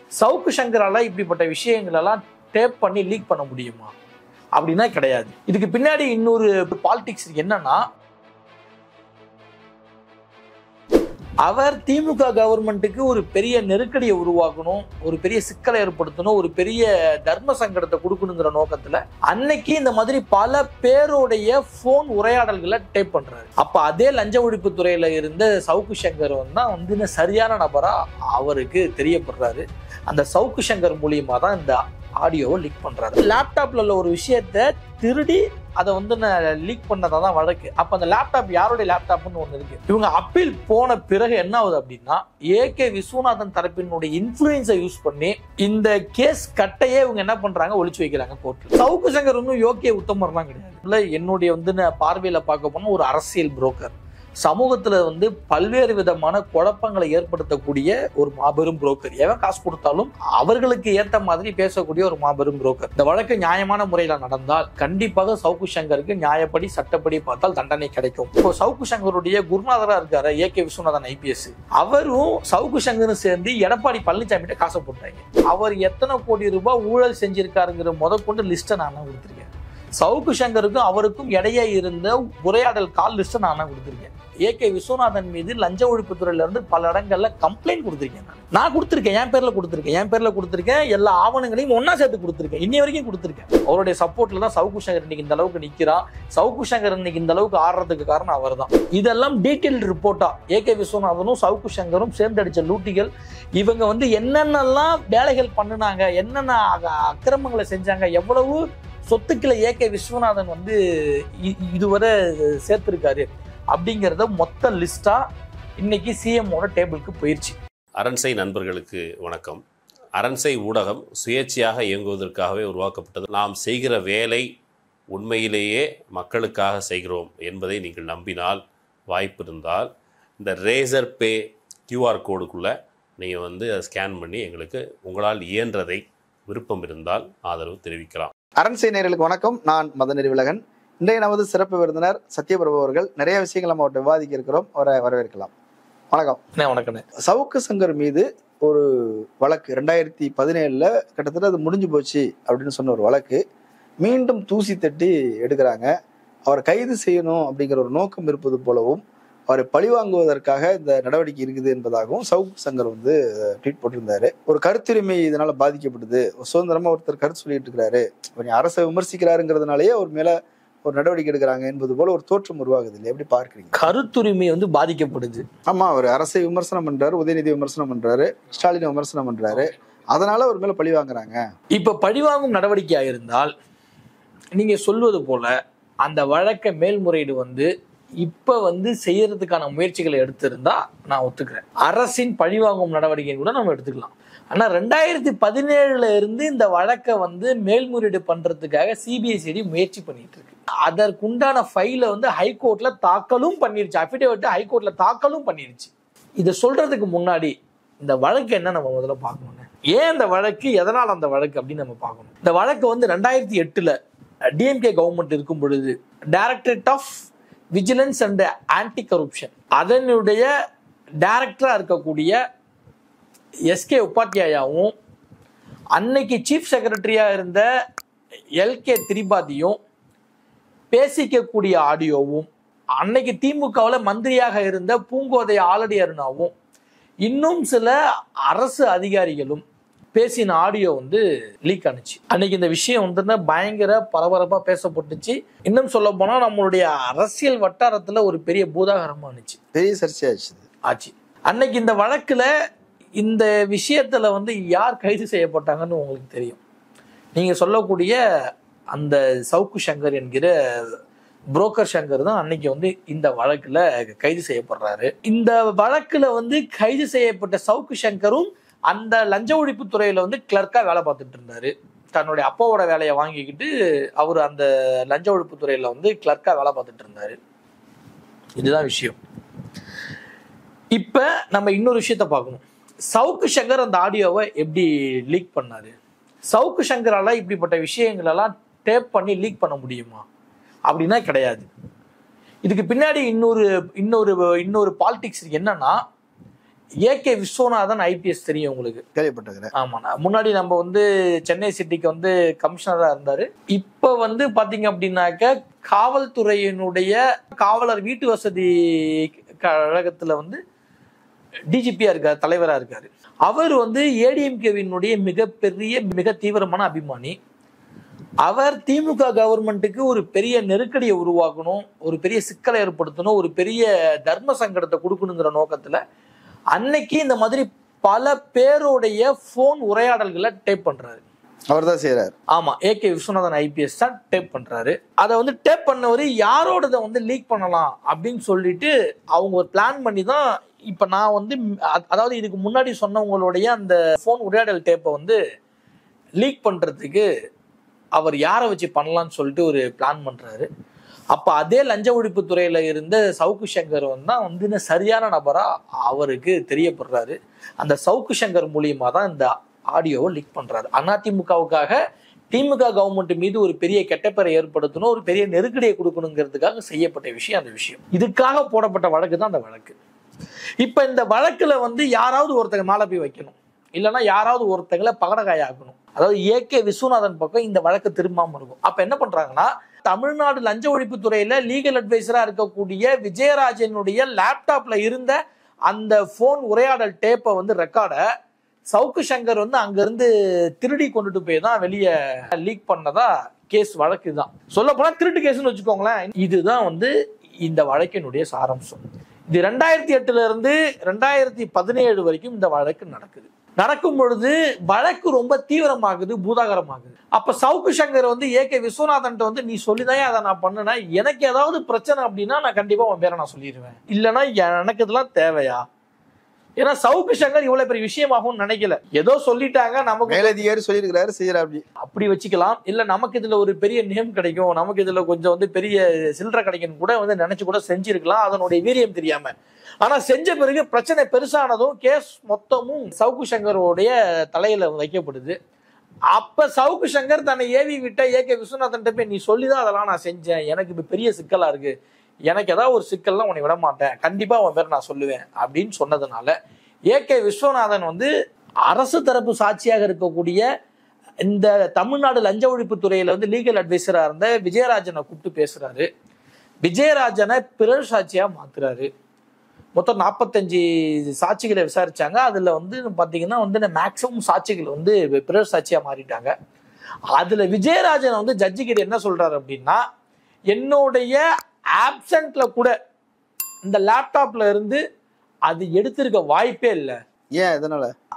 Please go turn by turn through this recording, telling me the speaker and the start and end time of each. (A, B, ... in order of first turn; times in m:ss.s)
0:00.2-0:03.9 A
0:04.6-0:07.8 A
0:11.4-0:53.9 A
0:54.4-1:50.8 A
1:51.4-1:55.2 A
1:55.8-1:57.6 A
1:58.0-1:59.6 B
2:00.2-2:04.5 B
2:05.1-2:11.4 B
2:11.9-2:18.3 B
2:18.6-2:25.5 C
2:26.1-2:26.4 C
2:26.6-2:27.0 A
2:27.2-2:33.4 C
2:34.0-2:35.9 C
2:36.5-2:53.8 C
2:53.7-2:55.4 A
2:55.7-3:01.4 C
3:01.8-3:03.5 A
3:04.5-3:07.7 A
3:08.2-3:33.9 A
3:34.6-3:37.1 A
3:37.7-3:40.5 A
3:41.2-3:42.4 A
3:43.7-3:44.9 A
3:46.0-3:47.6 A
3:48.6-3:49.8 A
3:50.9-3:52.5 A
3:53.0-3:56.5 A
3:57.2-3:58.0 A
3:58.5-4:09.6 A
4:09.8-4:10.6 C
4:10.9-4:12.5 A
4:13.2-4:16.6 A
4:17.4-4:18.2 A
4:18.9-4:20.5 A
4:21.6-4:37.4 A
4:38.6-4:39.2 A
4:40.9-4:45.9 A
4:46.5-4:50.2 A
4:50.9-4:51.7 A
4:52.6-4:56.0 A
4:57.0-4:59.0 A
4:59.2-4:59.7 C
4:59.8-5:10.6 A
5:11.7-5:17.4 A
5:18.4-5:26.0 A
5:26.7-5:31.2 A
5:31.7-5:32.3 C
5:32.5-5:45.4 A
5:46.4-5:47.3 A
5:48.2-5:50.7 A
5:51.3-6:02.0 A
6:02.5-6:10.0 A
6:10.8-6:25.4 A
6:25.9-6:28.2 A
6:28.9-6:30.3 A
6:30.8-6:37.1 A
6:37.6-6:55.8 A
6:56.8-7:00.6 A
7:00.3-7:01.8 C
7:02.0-7:15.6 A
7:16.3-7:21.9 A
7:22.5-7:26.5 A
7:27.1-7:28.3 A
7:28.9-7:30.6 A
7:31.4-7:36.1 A
7:36.8-7:39.1 A
7:40.0-7:46.5 A
7:47.4-7:50.0 A
7:50.7-7:51.4 A
7:52.0-7:52.9 A
7:53.8-7:55.0 A
7:55.7-7:57.2 A
7:57.6-7:58.1 C